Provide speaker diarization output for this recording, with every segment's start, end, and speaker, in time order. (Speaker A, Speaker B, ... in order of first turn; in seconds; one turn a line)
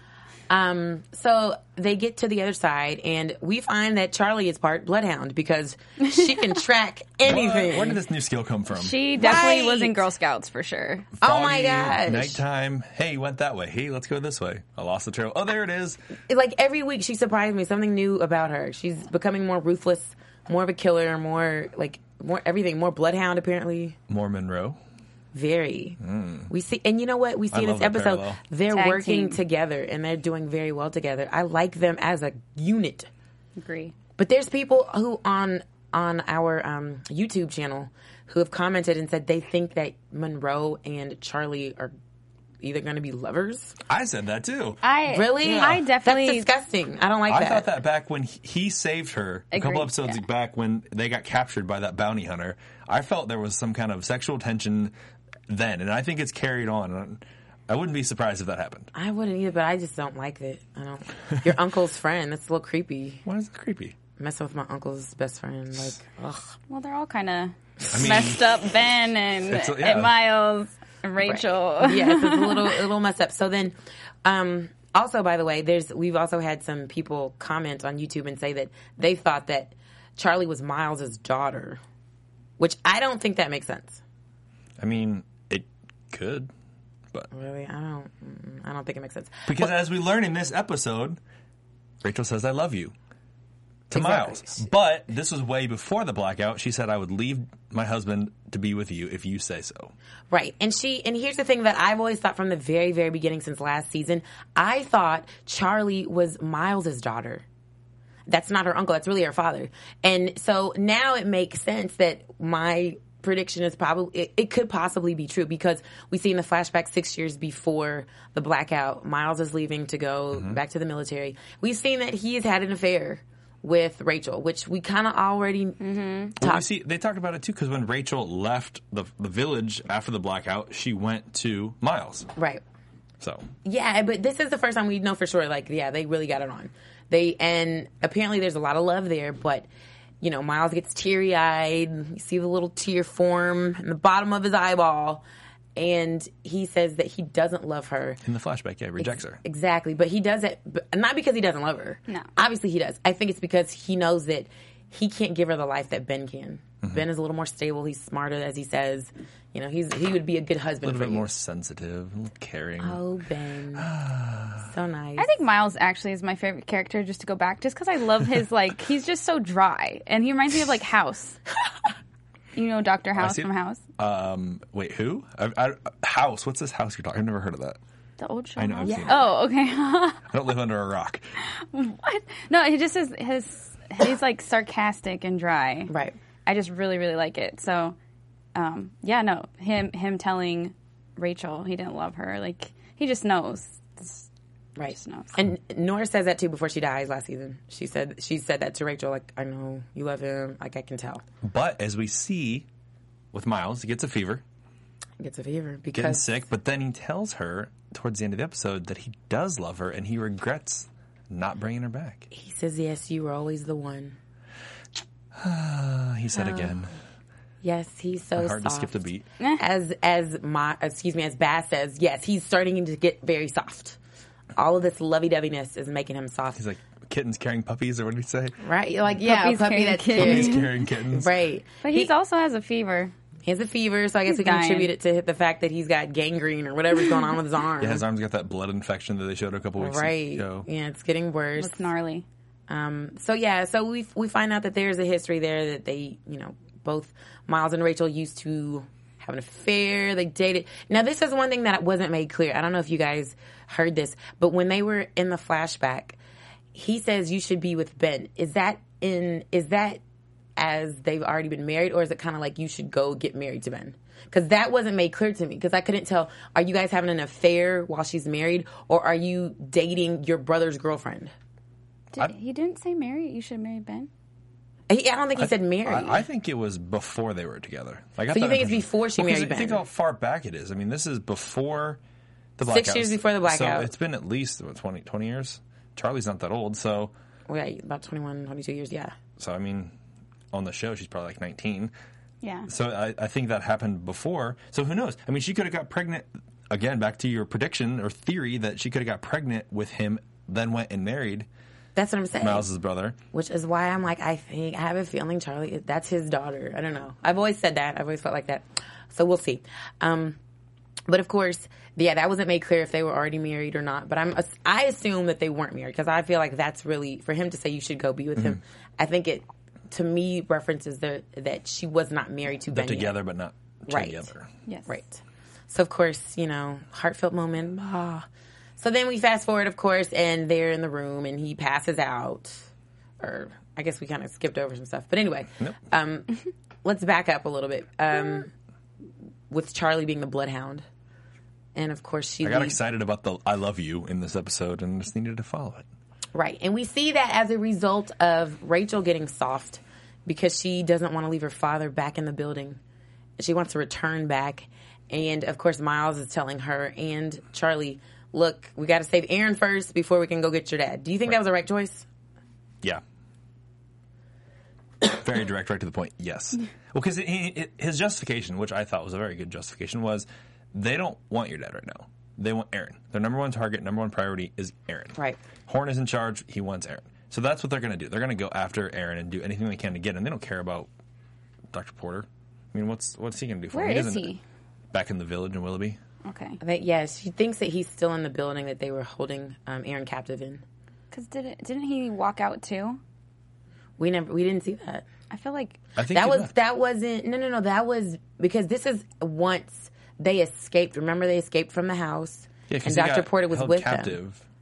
Speaker A: 0.5-8.0
Speaker B: 7.2-9.0
Speaker C: 8.7-11.1
Speaker A: 9.2-10.0
Speaker A: 11.2-12.4
Speaker B: 11.2-16.0
Speaker A: 16.3-23.9
Speaker B: 24.1-24.8
Speaker A: 25.3-26.0
Speaker B: 26.0-26.5
Speaker A: 26.5-33.1
Speaker B: 27.5-28.4
Speaker C: 28.7-29.4
Speaker C: 33.6-33.9
Speaker A: 34.2-41.9
Speaker A: 42.6-43.7
Speaker B: 43.9-44.8
Speaker C: 44.8-46.5
Speaker A: 45.1-47.7
Speaker B: 45.4-45.8
Speaker B: 47.3-54.9
Speaker C: 49.5-50.2
Speaker B: 55.5-58.9
Speaker A: 58.9-63.2
Speaker B: 63.2-63.9
Speaker A: 64.2-66.5
Speaker C: 66.7-72.8
Speaker B: 67.9-68.5
Speaker B: 69.5-70.1
Speaker A: 71.2-73.7
Speaker A: 74.2-81.8
Speaker A: 82.6-84.0
Speaker B: 84.8-86.5
Speaker A: 87.3-89.7
Speaker B: 89.5-91.2
Speaker B: 92.0-92.9
Speaker B: 93.9-99.9
Speaker A: 93.9-94.7
Speaker A: 100.3-107.4
Speaker A: 108.3-126.6
Speaker C: 125.8-126.3
Speaker B: 126.4-132.3
Speaker A: 132.3-132.6
Speaker B: 133.2-133.5
Speaker A: 133.6-139.7
Speaker A: 140.2-145.2
Speaker A: 145.8-148.2
Speaker B: 148.2-149.4
Speaker A: 149.0-161.3
Speaker B: 160.8-163.0
Speaker A: 162.8-163.9
Speaker B: 163.8-164.7
Speaker A: 164.7-165.3
Speaker C: 165.2-171.4
Speaker C: 172.5-173.8
Speaker B: 173.2-177.8
Speaker C: 178.2-180.3
Speaker B: 178.6-179.2
Speaker A: 178.8-179.2
Speaker B: 180.3-181.2
Speaker C: 181.5-185.9
Speaker A: 185.9-186.2
Speaker C: 186.4-187.9
Speaker C: 188.5-194.3
Speaker A: 194.8-201.2
Speaker C: 194.9-195.3
Speaker B: 201.4-202.7
Speaker B: 203.3-204.4
Speaker A: 205.2-206.2
Speaker B: 205.9-212.3
Speaker A: 212.3-214.2
Speaker B: 215.3-216.9
Speaker A: 216.3-216.8
Speaker A: 217.6-219.0
Speaker B: 218.4-219.2
Speaker A: 219.6-224.0
Speaker A: 224.6-226.6
Speaker B: 226.6-228.6
Speaker A: 228.6-232.1
Speaker C: 229.2-230.7
Speaker B: 230.2-231.3
Speaker C: 231.8-233.1
Speaker A: 233.4-238.0
Speaker C: 234.3-234.9
Speaker B: 237.8-240.7
Speaker A: 239.8-241.9
Speaker C: 241.6-242.2
Speaker A: 242.7-256.2
Speaker A: 256.7-260.0
Speaker A: 260.6-271.3
Speaker C: 272.1-274.1
Speaker A: 274.9-276.2
Speaker B: 275.4-282.0
Speaker A: 278.3-279.8
Speaker B: 282.6-287.1
Speaker A: 282.6-283.9
Speaker A: 287.5-289.1
Speaker B: 289.4-289.9
Speaker B: 290.5-291.9
Speaker C: 292.4-292.7
Speaker B: 292.7-301.5
Speaker A: 301.9-302.7
Speaker B: 302.4-303.2
Speaker A: 303.3-310.4
Speaker A: 311.1-323.1
Speaker B: 322.7-324.5
Speaker A: 323.9-324.3
Speaker C: 324.6-324.9
Speaker A: 324.9-328.2
Speaker A: 328.8-332.6
Speaker A: 333.2-338.5
Speaker A: 339.5-340.8
Speaker A: 341.7-342.8
Speaker B: 342.4-345.9
Speaker A: 346.3-352.8
Speaker A: 353.4-362.1
Speaker B: 365.0-380.9
Speaker B: 381.7-384.3
Speaker C: 383.7-384.4
Speaker B: 384.9-386.0
Speaker C: 386.2-386.6
Speaker A: 386.6-390.6
Speaker C: 391.1-393.0
Speaker A: 394.0-395.1
Speaker C: 395.3-395.8
Speaker B: 395.9-396.5
Speaker A: 396.1-404.2
Speaker B: 402.7-404.4